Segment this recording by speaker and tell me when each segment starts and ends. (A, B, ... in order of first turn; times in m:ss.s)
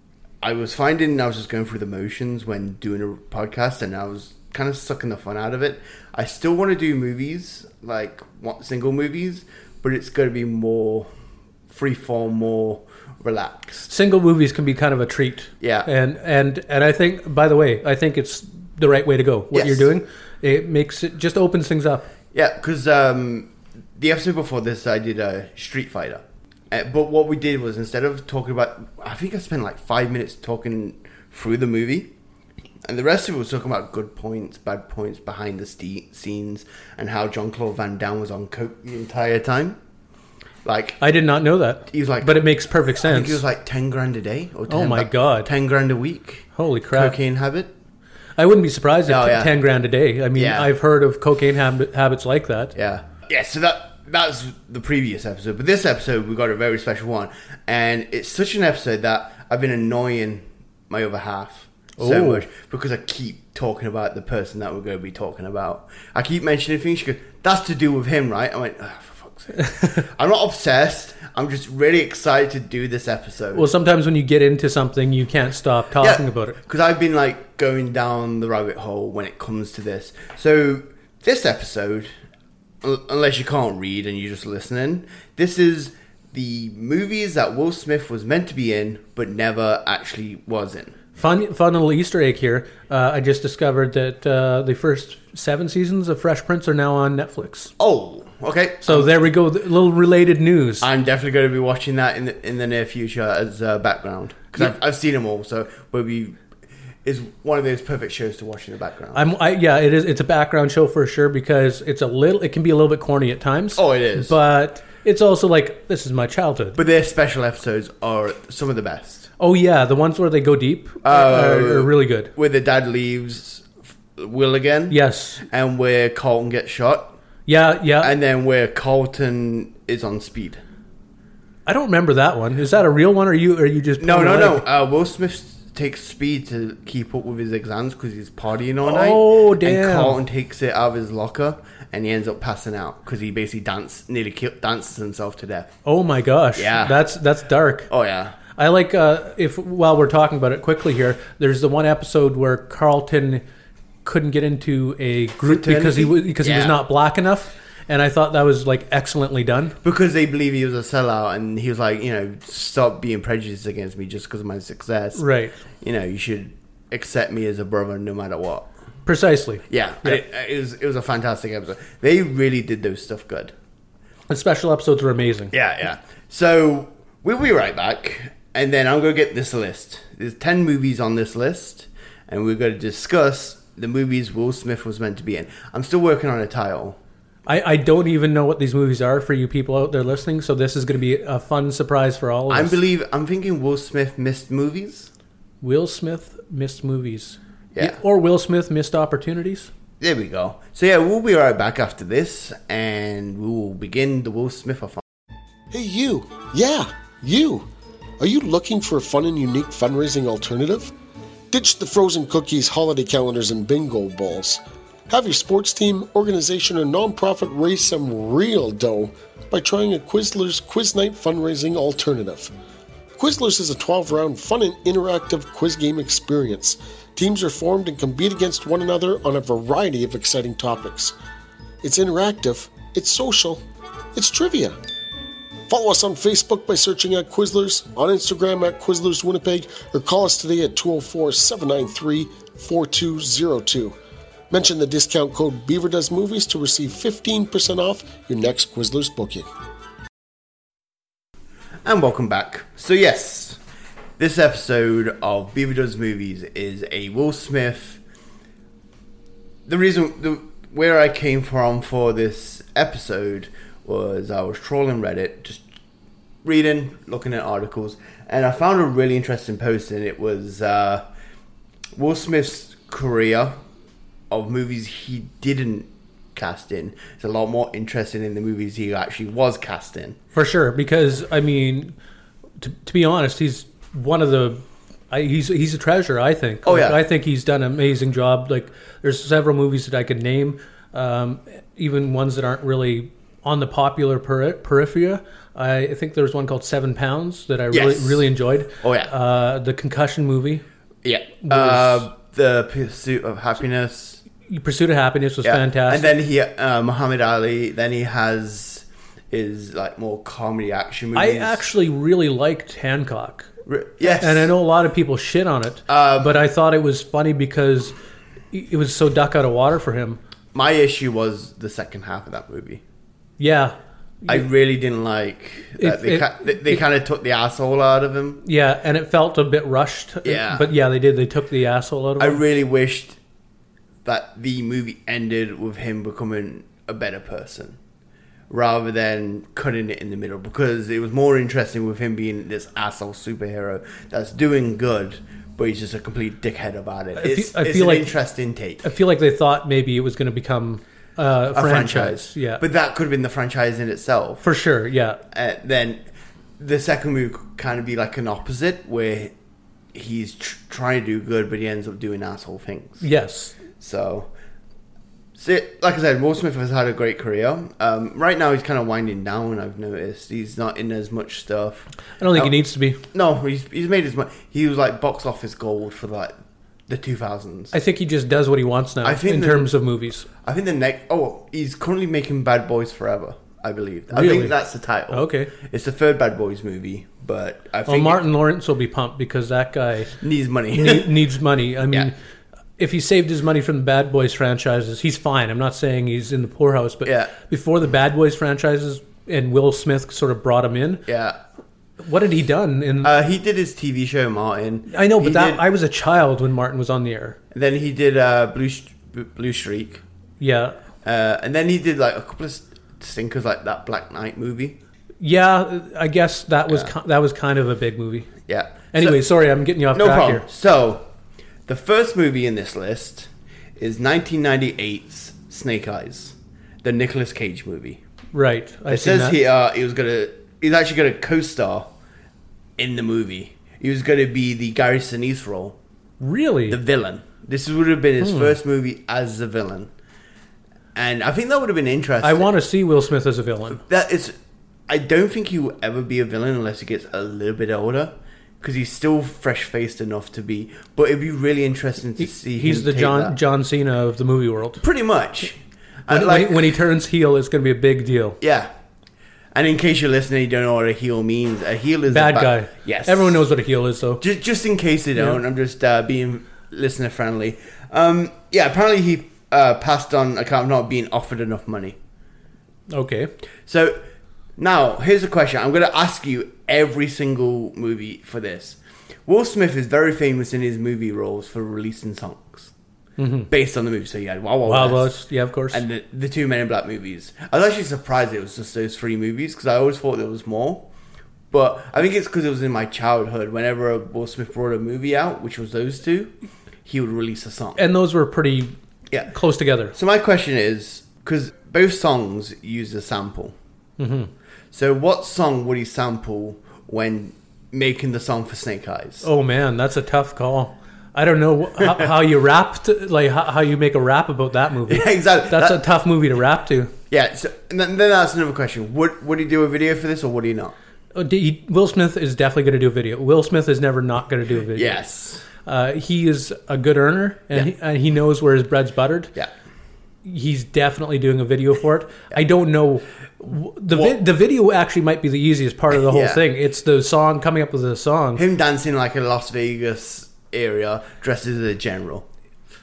0:00.4-0:11.1 A
0:11.7-0:13.9 A
0:13.9-0:22.1 B
0:15.6-0:15.9 A
0:19.5-0:19.9 A
0:22.3-0:32.1 A
0:32.9-0:39.8 A
0:40.6-0:41.0 A
0:41.0-0:43.4 B
0:41.9-0:47.7 A
0:44.7-0:45.5 B
0:46.6-0:47.2 B
0:48.4-0:52.7 B
0:49.1-0:49.5 A
0:50.4-0:50.7 A
0:52.8-1:13.7 A
1:02.0-1:02.4 B
1:09.6-1:09.9 B
1:13.6-1:16.6 B
1:16.0-1:22.1 A
1:22.8-1:31.0 A
1:31.2-1:37.7 B
1:37.8-1:39.3 A
1:38.8-1:40.9 B
1:40.8-1:46.4 A
1:47.0-1:49.2 A
1:49.1-1:56.8 B
1:53.8-1:54.3 A
1:56.8-1:59.3 A
1:59.4-2:02.3 B
2:01.0-2:07.2 A
2:04.9-2:05.4 B
2:07.5-2:08.2 B
2:08.0-2:10.6 A
2:11.7-2:14.6 B
2:14.0-2:25.7 A
2:18.8-2:20.2 B
2:25.8-2:27.9 B
2:26.6-2:27.0 A
2:27.9-2:28.4 A
2:28.6-2:33.4 B
2:34.0-2:39.8 B
2:35.4-2:36.8 A
2:39.8-2:45.3 A
2:45.2-2:45.6 B
2:45.8-2:48.7 A
2:49.1-2:50.2 B
2:49.7-2:53.5 A
2:54.3-2:55.5 B
2:55.5-3:07.0 A
3:07.5-3:12.8 B
3:12.5-3:15.1 A
3:15.6-3:19.7 B
3:17.7-3:18.0 A
3:20.0-3:25.0 A
3:25.7-3:27.7 C
3:28.2-3:30.9 C
3:31.5-3:42.5 C
3:43.2-3:51.1 C
3:51.8-3:53.6 C
3:54.1-3:54.8 C
3:55.7-4:04.0 C
4:04.5-4:09.5 C
4:11.8-4:13.6 A
4:14.2-4:18.0 A
4:19.7-4:25.6 A
4:26.4-4:31.0 A
4:32.0-4:33.6 A
4:34.3-4:40.2 A
4:40.3-4:42.0 B
4:42.6-5:00.6 B
4:46.6-4:47.0 A
4:57.7-4:58.2 A
4:58.8-4:59.1 A
5:01.0-5:04.2 A
5:01.4-5:02.1 B
5:04.5-5:06.1 B
5:05.4-5:11.6 A
5:11.2-5:13.5 B
5:13.7-5:14.5 A
5:14.0-5:17.9 B
5:15.9-5:16.4 A
5:18.5-5:20.2 B
5:20.5-5:22.8 A
5:23.4-5:24.4 B
5:24.3-5:28.4 A
5:25.8-5:26.8 B
5:28.4-5:32.4 B
5:30.2-5:30.7 A
5:32.2-5:33.2 A
5:34.0-5:37.8 A
5:38.5-5:48.8 A
5:47.2-5:48.1 B
5:48.8-5:52.6 B
5:51.5-5:54.4 A
5:54.4-5:55.2 B
5:55.3-5:56.0 A
5:56.6-5:59.3 A
5:59.9-6:03.0 A
6:03.0-6:03.6 B
6:03.8-6:04.3 A
6:05.4-6:16.4 A
6:12.2-6:13.0 B
6:16.9-6:17.7 A
6:17.7-6:20.3 B
6:19.0-6:19.7 A
6:20.4-6:28.2 A
6:24.1-6:24.6 B
6:25.1-6:25.5 B
6:27.9-6:30.2 B
6:30.2-6:31.1 A
6:30.7-6:32.1 B
6:32.8-6:41.0 B
6:37.0-6:37.3 A
6:41.1-6:41.4 A
6:42.0-6:43.1 B
6:43.0-6:45.6 A
6:44.9-6:47.4 B
6:47.5-6:50.0 A
6:50.4-6:50.8 B
6:51.0-6:54.8 A
6:55.2-6:58.3 B
6:58.5-6:59.2 A
6:58.9-7:00.4 B
6:59.9-7:01.0 A
7:01.7-7:08.0 A
7:08.3-7:09.4 B
7:08.9-7:11.9 A
7:12.8-7:15.8 A
7:16.2-7:16.8 B
7:16.7-7:19.9 A
7:18.2-7:18.6 B
7:21.0-7:22.5 A
7:22.2-7:23.8 B
7:23.7-7:24.3 A
7:24.9-7:33.4 A
7:32.2-7:34.8 B
7:34.8-7:36.7 A
7:36.1-7:38.4 B
7:38.4-7:38.7 A
7:39.5-7:43.4 A
7:42.1-7:44.2 B
7:44.2-7:52.0 A
7:52.9-7:53.3 B
7:53.7-7:54.0 A
7:54.6-8:02.7 A
8:03.2-8:03.5 B
8:03.5-8:05.2 A
8:04.7-8:05.8 B
8:05.7-8:10.9 A
8:11.5-8:16.3 A
8:16.8-8:17.8 A
8:17.8-8:18.7 B
8:19.3-8:19.9 B
8:19.9-8:23.6 A
8:24.0-8:24.3 B
8:24.7-8:29.3 A
8:29.2-8:36.9 B
8:31.8-8:32.1 A
8:34.9-8:35.8 A
8:37.1-8:40.7 A
8:41.2-8:45.0 B
8:44.8-8:45.4 A
8:45.6-8:49.3 B
8:50.2-8:58.4 B
8:53.9-8:54.2 A
8:55.9-8:56.4 A
8:58.4-9:02.2 A